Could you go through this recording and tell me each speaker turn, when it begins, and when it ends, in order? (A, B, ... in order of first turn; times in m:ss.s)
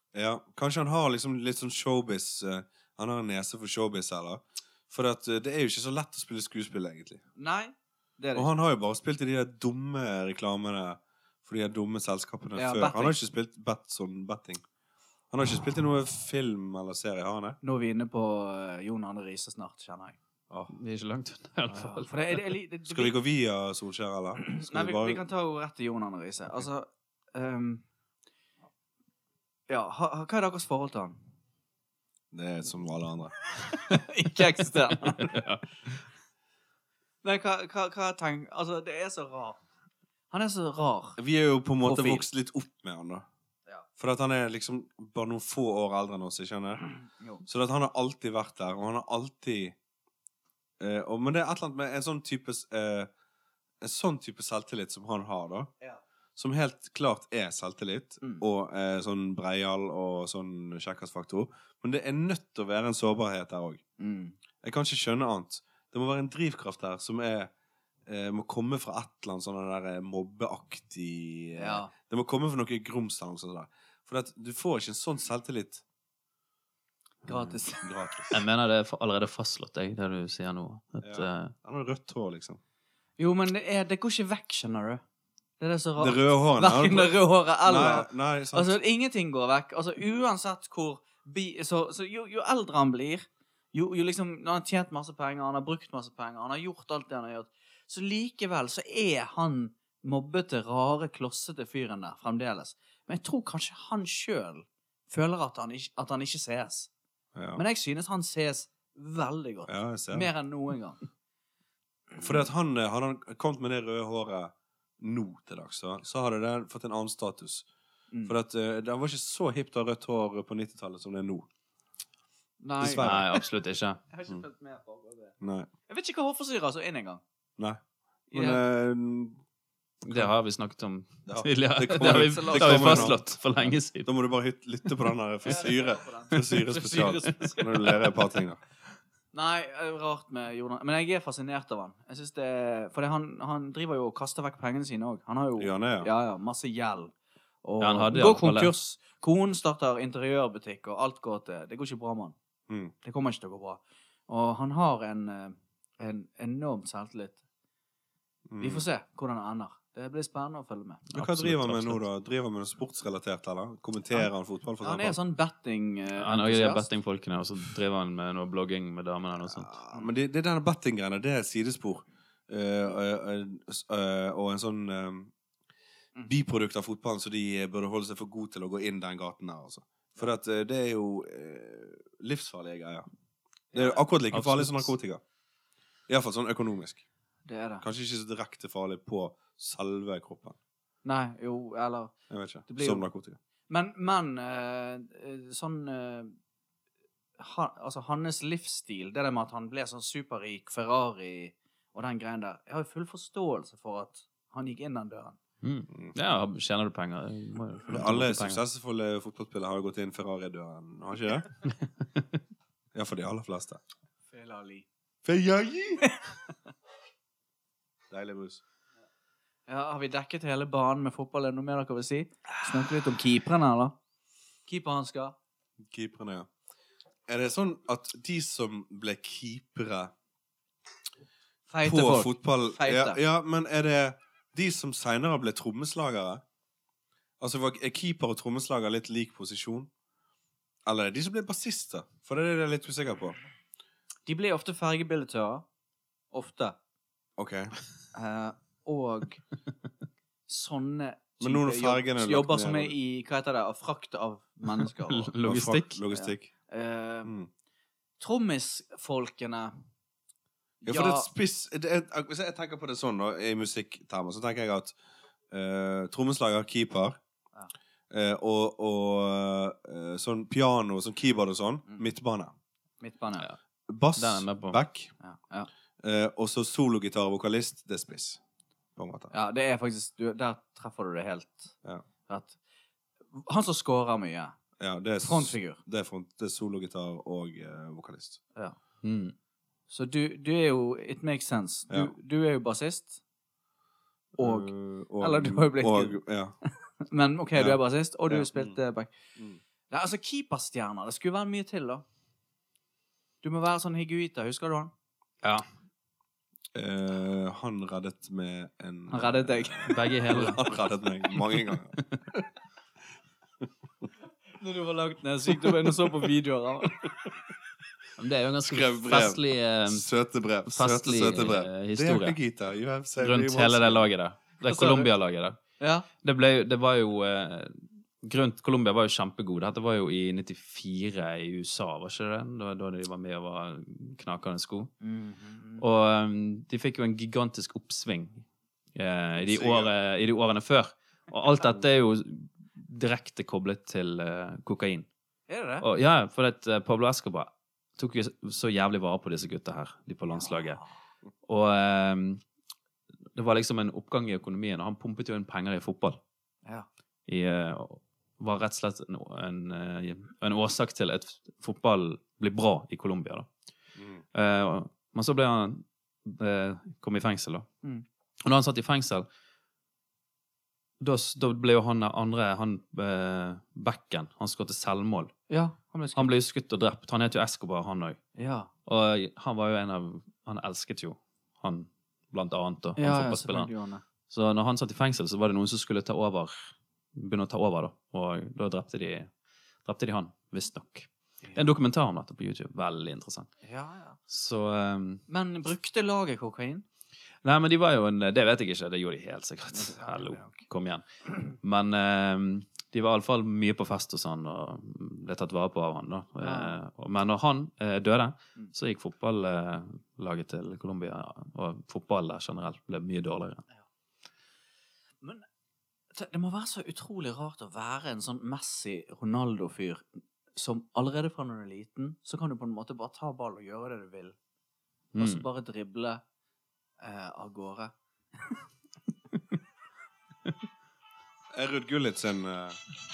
0:00.1-0:07.2 A
0:07.4-0:08.5 B
0:08.4-0:14.6 A
0:12.6-0:13.2 B
0:15.3-0:17.6 A
0:17.6-0:20.2 B
0:20.7-0:22.5 C
0:21.7-0:23.1 B
0:22.9-0:25.2 A
0:24.4-0:27.8 B
0:29.7-0:31.2 B
0:32.3-0:33.4 A
0:33.6-0:35.3 B
0:35.1-0:35.6 C
0:37.2-0:39.6 B
0:40.3-0:41.2 B
0:41.2-0:43.3 A
0:41.8-0:42.2 B
0:44.0-0:46.8 A
0:47.4-0:49.8 A
0:50.8-0:53.1 A
0:53.8-0:55.7 A
0:56.4-1:03.8 A
1:04.0-1:04.4 B
1:04.6-1:07.5 A
1:08.1-1:15.8 A
1:11.6-1:11.9 B
1:17.2-1:18.0 B
1:17.3-1:18.4 A
1:18.3-1:21.5 C
1:21.0-1:22.6 A
1:23.2-1:25.0 B
1:25.6-1:46.9 B
1:26.0-1:28.8 A
1:47.4-1:47.6 A
1:47.6-1:51.0 B
1:49.7-1:50.3 A
1:52.2-1:57.7 A
1:58.1-1:58.4 B
1:58.2-2:01.5 A
2:02.6-2:03.5 B
2:02.8-2:03.3 A
2:03.0-2:04.0 C
2:04.1-2:05.4 B
2:05.4-2:05.7 A
2:05.9-2:07.2 B
2:08.3-2:09.4 A
2:08.3-2:08.6 B
2:10.0-2:14.1 C
2:11.3-2:18.6 A
2:12.0-2:13.2 B
2:15.4-2:17.6 B
2:19.3-2:32.4 B
2:25.6-2:26.1 A
2:27.8-2:28.7 C
2:32.7-2:32.9 A
2:33.0-2:37.4 B
2:38.5-2:38.9 A
2:38.6-2:41.0 B
2:41.1-2:42.0 C
2:41.2-2:45.2 A
2:44.8-2:46.9 B
2:46.2-2:49.7 C
2:49.5-2:55.3 A
2:56.3-3:03.1 A
3:03.7-3:04.0 B
3:03.7-3:05.2 A
3:04.3-3:04.9 C
3:06.1-3:07.0 A
3:07.5-3:07.8 B
3:07.8-3:10.6 A
3:11.0-3:12.1 B
3:12.3-3:13.4 A
3:12.7-3:13.1 B
3:13.7-3:16.4 B
3:17.4-3:25.4 B
3:25.6-3:28.6 C
3:27.9-3:31.5 A
3:32.9-3:33.8 A
3:34.3-3:34.9 B
3:35.2-3:36.1 A
3:36.1-3:36.4 B
3:38.1-3:38.6 A
3:39.7-3:44.0 B
3:44.7-3:45.4 B
3:45.9-3:46.5 A
3:47.3-3:50.1 A
3:51.7-3:53.2 B
3:51.8-3:56.4 A
3:57.4-3:59.9 A
4:00.8-4:03.4 A
4:04.3-4:05.6 B
4:06.3-4:06.8 B
4:07.4-4:07.7 A
4:08.1-4:09.4 B
4:10.5-4:15.3 B
4:11.4-4:13.0 A
4:15.0-4:16.0 C
4:15.4-4:16.5 A
4:16.1-4:17.3 B
4:18.2-4:19.7 B
4:20.8-4:21.3 B
4:20.8-4:25.0 A
4:25.5-4:27.2 A
4:28.1-4:32.5 A
4:33.0-4:33.5 B
4:33.9-4:35.1 A
4:34.2-4:34.8 C
4:35.2-4:35.7 B
4:36.0-4:38.4 A
4:39.0-4:39.3 A
4:39.3-4:41.7 B
4:42.3-4:42.6 B
4:43.4-4:44.6 B
4:44.8-4:48.4 A
4:45.2-4:45.8 B
4:49.0-4:49.4 C
4:49.9-4:53.2 B
4:54.4-4:59.1 B
4:54.4-4:56.6 A
4:57.6-4:58.8 A
4:59.9-5:02.0 B
5:03.4-5:04.9 B
5:06.7-5:12.5 A
5:09.1-5:10.0 B
5:09.9-5:10.6 C
5:14.6-5:17.2 B
5:18.2-5:20.0 C
5:18.6-5:24.1 A
5:20.7-5:22.4 C
5:23.2-5:25.6 C
5:24.7-5:25.1 B
5:25.8-5:26.1 B
5:26.2-5:34.9 C
5:35.0-5:35.8 B
5:35.8-5:45.1 C
5:39.4-5:39.9 A
5:45.5-5:45.9 B
5:45.8-5:50.8 C
5:50.3-5:50.8 B
5:51.5-5:52.4 C
5:53.4-5:56.2 C
5:57.3-6:03.5 C
6:04.0-6:04.2 A
6:04.3-6:07.7 C
6:08.4-6:09.3 C
6:11.0-6:15.3 C
6:15.5-6:16.4 B
6:16.2-6:18.2 C
6:18.4-6:18.7 B
6:18.9-6:23.7 C
6:23.0-6:24.0 B
6:24.3-6:26.6 C
6:27.2-6:29.3 C
6:29.8-6:33.5 C
6:33.6-6:34.2 B
6:34.3-6:35.2 C
6:35.3-6:36.8 B
6:37.4-6:53.6 C
6:39.7-6:40.6 B
6:46.4-6:46.8 B
6:56.1-7:04.4 B
7:05.2-7:05.5 C
7:05.2-7:06.2 B
7:07.0-7:07.9 B
7:11.5-7:12.8 A